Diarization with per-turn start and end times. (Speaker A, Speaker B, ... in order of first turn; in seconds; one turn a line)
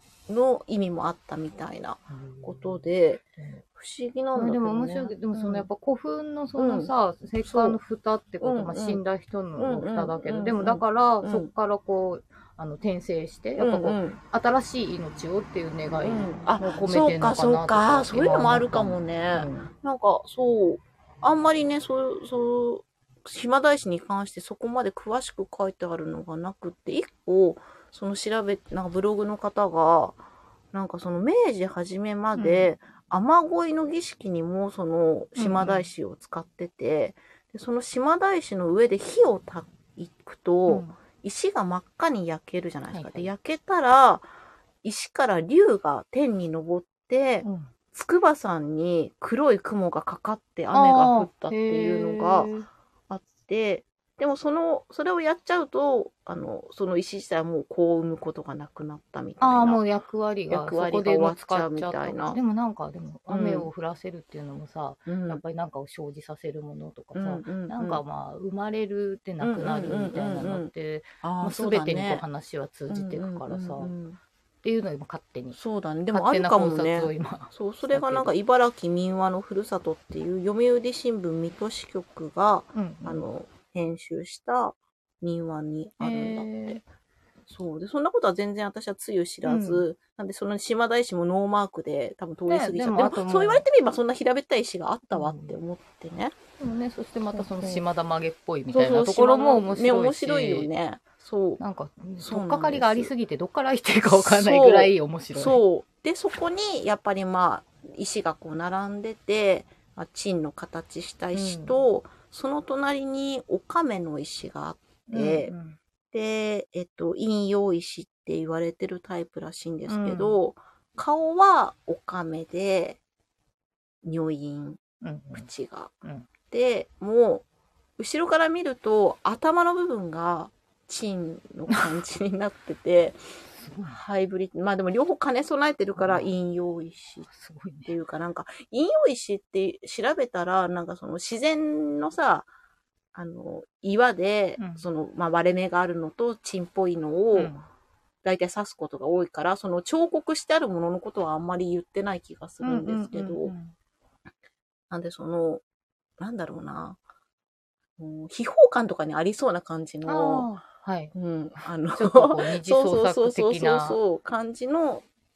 Speaker A: 0.3-3.2
Speaker B: 2.1-3.6
Speaker A: 3.8-5.7
Speaker B: 4.3-19.7
Speaker A: 6.6-7.8
Speaker A: 8.4-9.0
Speaker A: 9.6-11.5
Speaker A: 13.6-14.2
Speaker A: 16.0-30.2
Speaker A: 30.7-44.3
Speaker B: 32.4-32.7
Speaker B: 35.4-35.9
Speaker B: 40.7-41.0
Speaker B: 42.9-43.3
Speaker A: 44.8-52.5
Speaker B: 47.4-47.7
Speaker B: 50.7-52.7
Speaker A: 53.1-59.8
Speaker B: 59.4-73.9
Speaker A: 60.5-62.4
Speaker A: 63.3-63.7
Speaker A: 65.1-65.4
Speaker A: 67.1-68.0
Speaker A: 69.4-70.7
Speaker A: 71.2-72.2
Speaker A: 72.9-74.2
Speaker B: 74.6-75.6
Speaker A: 75.5-86.8
Speaker B: 76.1-78.3
Speaker B: 82.7-83.3
Speaker B: 86.0-86.8
Speaker A: 87.5-96.4
Speaker B: 89.4-89.9
Speaker B: 92.5-93.7
Speaker B: 95.1-95.6
Speaker B: 96.6-100.7
Speaker A: 97.3-97.8
Speaker A: 98.7-101.6
Speaker B: 101.6-105.6
Speaker A: 102.2-103.1
Speaker A: 104.1-115.5
Speaker B: 111.3-111.8
Speaker B: 115.1-115.8
Speaker A: 116.1-123.0
Speaker B: 119.9-120.4
Speaker A: 124.0-125.9
Speaker B: 125.0-125.5
Speaker A: 126.5-127.5
Speaker A: 128.0-133.2
Speaker B: 133.5-134.0
Speaker A: 133.8-137.3
Speaker B: 136.0-136.3
Speaker B: 137.3-137.9
Speaker A: 137.8-142.5
Speaker A: 143.1-147.5
Speaker B: 144.6-144.8
Speaker B: 147.3-147.7
Speaker A: 148.2-153.5
Speaker B: 152.6-153.8
Speaker A: 154.9-155.6
Speaker A: 156.2-157.0
Speaker A: 158.0-160.5
Speaker B: 160.1-161.1
Speaker A: 161.1-165.1
Speaker B: 161.9-164.0